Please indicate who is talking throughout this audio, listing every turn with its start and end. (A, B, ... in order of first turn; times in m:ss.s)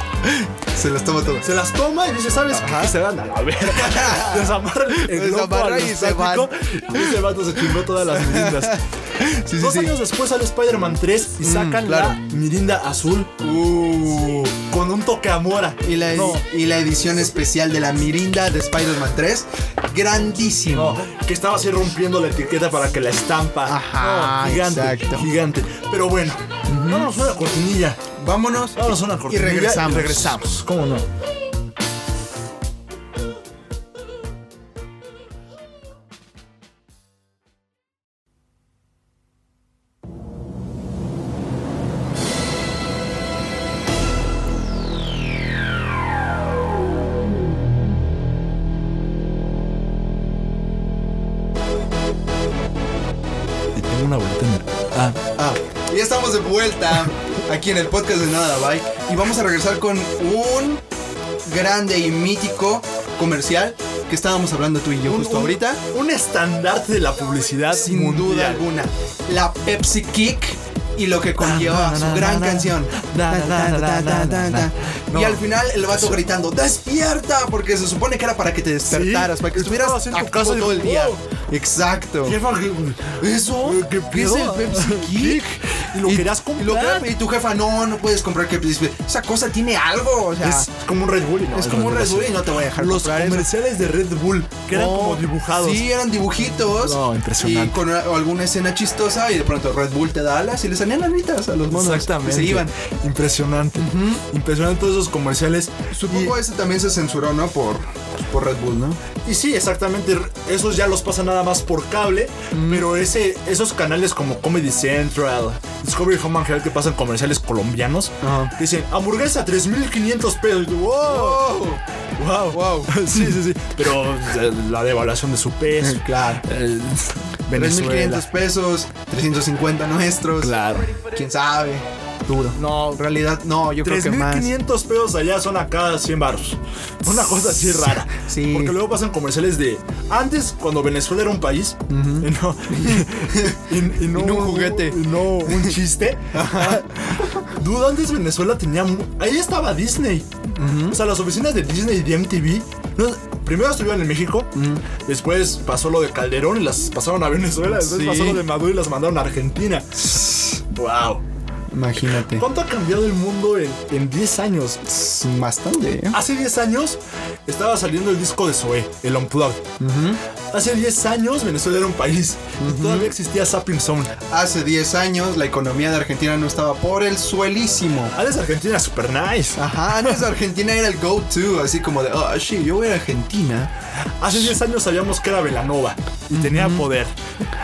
0:00.2-0:01.5 A
0:01.4-0:08.8 B
0:02.5-0:03.0 A
0:03.6-0:10.0 A
0:09.6-0:13.4 B
0:11.4-0:12.2 A
0:13.4-0:14.5 A
0:14.6-0:16.4 B
0:15.8-0:21.0 A
0:20.7-0:28.0 B
0:23.6-0:25.3 A
0:26.7-0:27.1 A
0:28.2-0:30.5 A
0:28.8-0:31.1 B
0:53.8-0:55.2 B
0:55.4-1:00.8 A
1:01.4-1:05.8 A
1:05.0-1:08.6 B
1:07.7-1:22.4 A
1:11.4-1:16.2 B
1:18.9-1:21.2 B
1:22.2-1:27.1 B
1:23.2-1:30.7 A
1:30.4-1:35.9 B
1:31.5-1:33.5 A
1:34.7-1:42.7 A
1:36.8-1:37.8 B
1:41.7-1:46.4 B
1:43.8-1:44.2 A
1:45.9-1:49.0 A
1:49.2-2:01.5 B
1:52.5-1:52.9 A
1:58.2-1:58.5 A
2:01.0-2:01.8 A
2:02.2-2:08.2 B
2:02.5-2:03.4 A
2:05.8-2:06.4 A
2:07.5-2:14.5 A
2:10.4-2:11.0 B
2:12.5-2:13.0 B
2:13.8-2:30.3 B
2:17.1-2:18.8 A
2:21.9-2:25.8 A
2:26.3-2:27.4 A
2:30.5-2:31.0 A
2:30.9-2:41.2 B
2:34.5-2:34.8 A
2:37.7-2:38.4 A
2:40.1-2:40.6 A
2:41.7-2:42.4 A
2:42.3-2:44.8 B
2:44.8-2:46.2 A
2:46.1-2:49.7 B
2:49.8-2:50.2 A
2:50.5-2:54.2 B
2:52.6-2:53.1 A
2:54.3-2:58.1 A
2:58.1-3:00.2 B
2:59.6-3:03.7 A
3:04.2-3:07.1 B
3:06.3-3:06.9 A